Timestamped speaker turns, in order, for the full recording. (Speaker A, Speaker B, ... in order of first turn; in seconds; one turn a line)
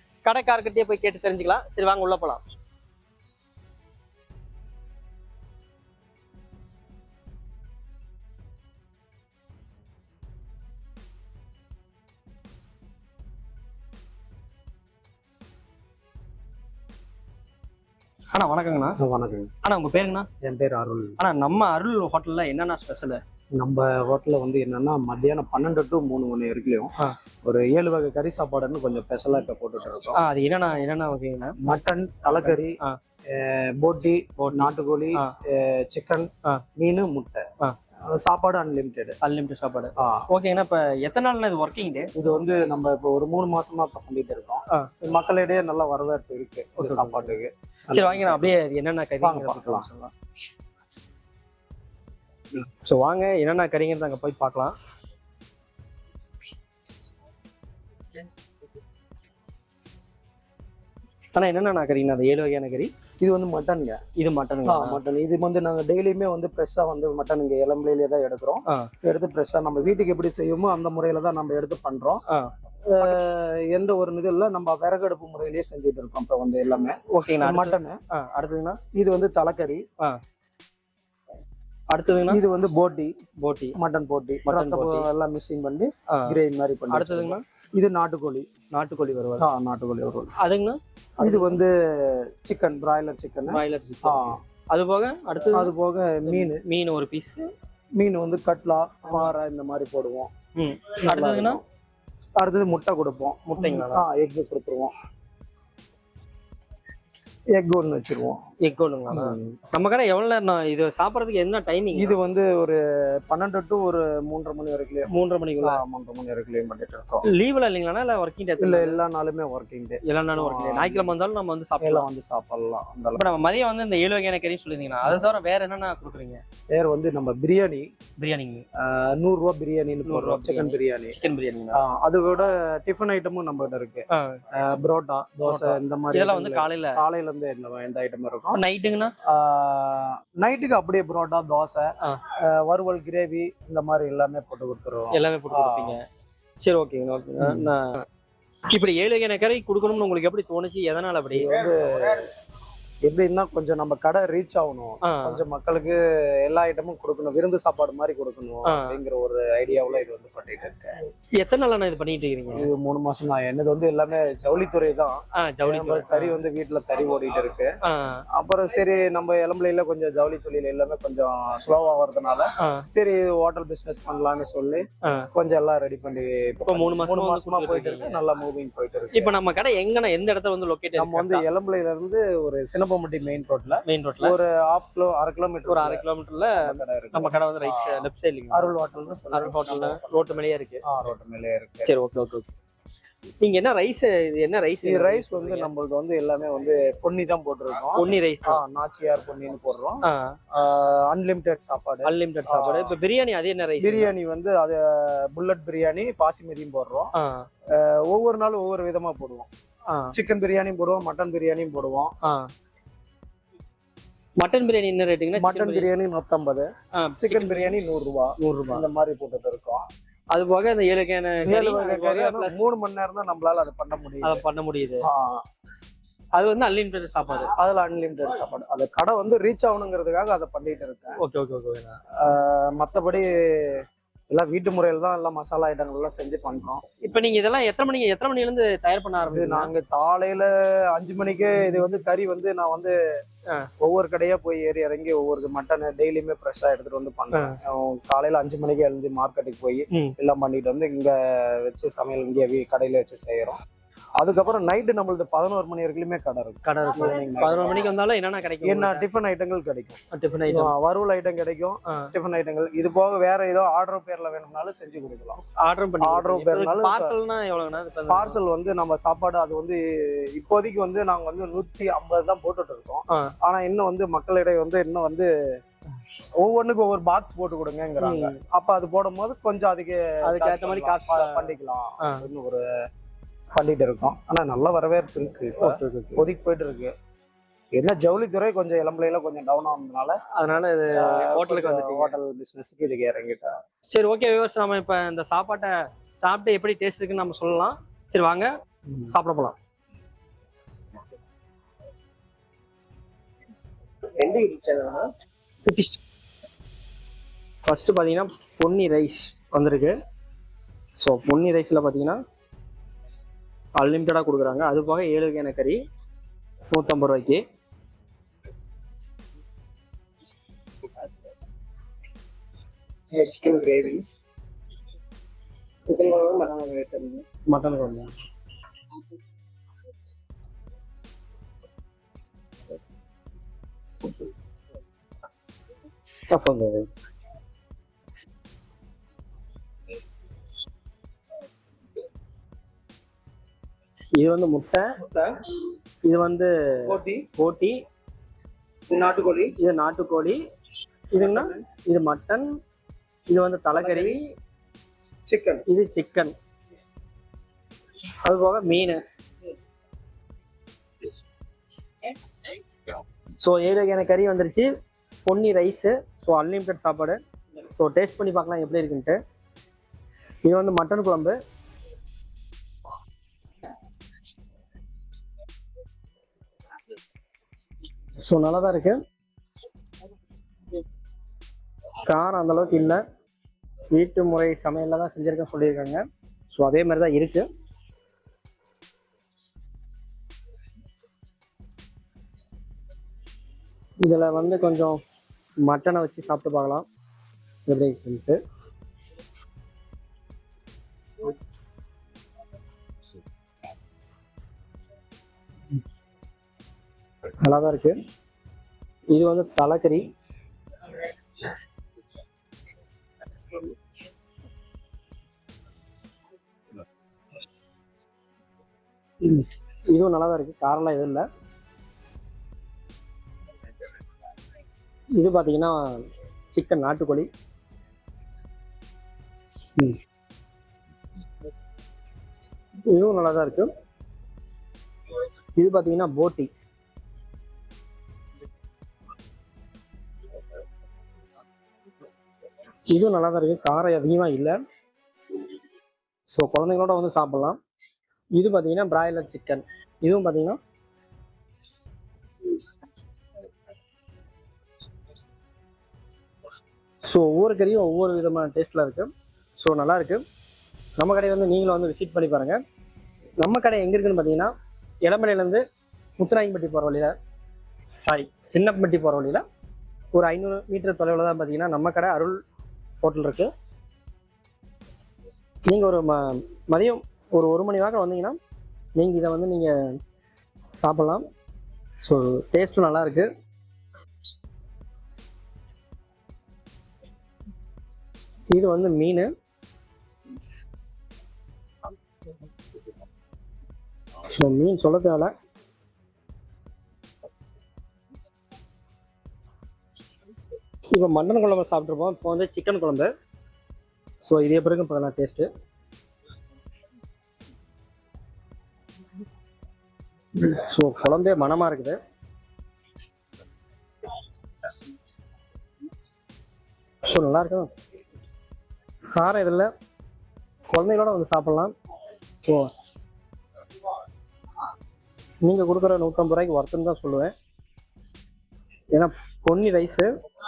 Speaker A: 0.2-2.4
Speaker A: 18.3-19.0
Speaker B: 19.0-19.5
Speaker A: 19.6-20.3
Speaker B: 20.4-21.2
Speaker A: 21.2-23.2
Speaker B: 23.6-26.9
Speaker B: 27.4-30.2
Speaker A: 30.2-31.8
Speaker B: 31.6-32.8
Speaker A: 32.3-33.0
Speaker B: 33.3-37.4
Speaker A: 34.4-35.3
Speaker B: 38.0-39.2
Speaker A: 39.2-42.1
Speaker B: 40.0-40.2
Speaker B: 42.1-48.5
Speaker A: 46.8-47.3
Speaker A: 47.9-50.1
Speaker B: 49.2-49.9
Speaker A: 52.9-54.7
Speaker A: 61.3-62.9
Speaker B: 63.2-64.0
Speaker A: 64.2-65.0
Speaker B: 64.6-72.2
Speaker B: 72.9-78.0
Speaker A: 77.1-78.8
Speaker B: 78.9-79.8
Speaker A: 81.9-82.4
Speaker B: 82.3-83.1
Speaker A: 83.4-83.8
Speaker B: 83.7-88.5
Speaker A: 84.5-85.0
Speaker A: 86.1-86.4
Speaker A: 86.9-87.4
Speaker A: 88.7-89.5
Speaker B: 89.4-90.3
Speaker A: 90.4-91.6
Speaker B: 91.2-94.4
Speaker A: 93.5-95.7
Speaker B: 95.5-96.6
Speaker A: 96.2-97.5
Speaker B: 98.0-100.3
Speaker A: 100.6-101.6
Speaker B: 101.0-101.6
Speaker B: 102.4-104.9
Speaker A: 103.5-104.0
Speaker B: 107.5-108.4
Speaker A: 108.6-112.1
Speaker B: 109.1-109.6
Speaker B: 111.9-115.1
Speaker A: 115.1-115.8
Speaker B: 115.6-117.3
Speaker A: 117.3-119.0
Speaker B: 118.6-121.1
Speaker A: 120.0-122.1
Speaker B: 121.8-123.2
Speaker A: 123.2-126.4
Speaker B: 126.7-127.9
Speaker A: 128.2-128.6
Speaker B: 128.8-131.2
Speaker A: 130.1-131.8
Speaker B: 131.7-138.6
Speaker A: 134.1-134.4
Speaker A: 135.5-137.0
Speaker A: 138.5-139.1
Speaker B: 139.2-146.0
Speaker A: 145.1-146.0
Speaker A: 146.6-148.0
Speaker B: 147.4-147.7
Speaker A: 148.7-151.6
Speaker B: 151.3-152.3
Speaker B: 153.0-160.9
Speaker A: 155.0-155.4
Speaker A: 158.7-158.9
Speaker A: 161.4-162.7
Speaker B: 162.5-167.7
Speaker A: 165.4-166.4
Speaker A: 167.8-168.2
Speaker B: 168.3-179.3
Speaker A: 172.6-172.9
Speaker A: 176.7-178.2
Speaker A: 179.1-181.4
Speaker B: 180.9-186.0
Speaker A: 183.8-184.3
Speaker A: 185.7-188.7
Speaker B: 186.6-190.0
Speaker A: 189.3-190.8
Speaker B: 190.8-191.9
Speaker A: 191.8-192.5
Speaker A: 193.4-195.7
Speaker B: 194.8-202.9
Speaker A: 197.9-198.6
Speaker A: 200.0-200.3
Speaker A: 202.0-204.1
Speaker B: 203.8-207.1
Speaker A: 207.2-207.4
Speaker B: 207.7-209.5
Speaker A: 209.9-210.1
Speaker B: 210.1-212.1
Speaker A: 214.4-215.9
Speaker B: 215.3-219.8
Speaker A: 216.9-217.7
Speaker A: 218.4-218.8
Speaker A: 220.3-222.6
Speaker B: 221.4-224.4
Speaker A: 224.2-225.0
Speaker B: 225.0-225.4
Speaker A: 226.3-227.5
Speaker B: 227.5-231.2
Speaker A: 231.2-232.0
Speaker B: 232.2-236.8
Speaker A: 237.0-239.7
Speaker B: 239.3-242.9
Speaker B: 243.8-253.6
Speaker B: 254.2-257.9
Speaker A: 256.6-259.1
Speaker B: 258.6-265.4
Speaker A: 260.1-260.7
Speaker A: 261.9-262.1
Speaker A: 265.6-268.4
Speaker B: 266.0-267.1
Speaker B: 268.1-269.8
Speaker B: 270.3-275.3
Speaker B: 276.4-282.7
Speaker A: 278.0-278.4
Speaker A: 280.3-281.5
Speaker B: 283.6-286.9
Speaker A: 285.6-286.2
Speaker B: 287.7-290.2
Speaker A: 290.3-292.1
Speaker B: 291.0-293.6
Speaker A: 293.9-298.5
Speaker A: 299.1-299.5
Speaker B: 304.2-305.1
Speaker A: 305.6-306.0
Speaker A: 307.7-309.9
Speaker A: 311.0-312.2
Speaker A: 313.8-315.8
Speaker A: 316.7-317.4
Speaker B: 323.1-324.0
Speaker B: 325.9-327.2
Speaker A: 327.5-328.1
Speaker A: 336.3-336.9
Speaker A: 344.2-344.8
Speaker B: 345.0-345.3
Speaker A: 346.1-347.8
Speaker B: 346.9-347.2
Speaker B: 348.9-349.6
Speaker A: 349.6-350.4
Speaker A: 351.1-352.5
Speaker B: 351.1-351.6
Speaker A: 353.3-354.2
Speaker B: 353.7-354.2
Speaker B: 355.3-355.6
Speaker A: 355.7-356.3
Speaker A: 358.2-359.0
Speaker A: 363.4-364.7
Speaker A: 365.2-367.2
Speaker A: 367.7-369.2
Speaker A: 370.4-371.4
Speaker A: 378.2-379.0
Speaker A: 382.1-383.0
Speaker A: 383.9-386.0
Speaker A: 386.5-387.4
Speaker A: 394.0-395.0
Speaker A: 395.6-396.8
Speaker A: 397.6-398.4
Speaker A: 407.4-407.9
Speaker A: 409.1-410.1
Speaker A: 419.2-421.2
Speaker A: 425.2-425.8
Speaker A: 426.5-427.3
Speaker A: 432.9-433.7
Speaker A: 435.6-436.5
Speaker A: 442.9-444.6
Speaker A: 446.3-447.6
Speaker A: 448.4-450.6
Speaker A: 457.1-460.2
Speaker A: 461.0-462.6
Speaker A: 463.4-464.5
Speaker A: 465.0-465.6
Speaker A: 466.2-467.1
Speaker A: 468.0-469.4
Speaker A: 470.1-472.4
Speaker A: 473.0-473.5
Speaker A: 475.6-478.4
Speaker A: 478.9-479.7
Speaker A: 480.8-481.2
Speaker A: 482.0-483.3
Speaker A: 488.5-489.3
Speaker A: 494.3-495.3
Speaker A: 500.9-503.1
Speaker A: 504.2-505.5
Speaker A: 510.4-512.0
Speaker A: 517.1-517.7
Speaker A: 519.1-519.7
Speaker A: 520.7-521.7
Speaker A: 522.4-522.7
Speaker A: 525.4-527.3
Speaker A: 528.9-530.1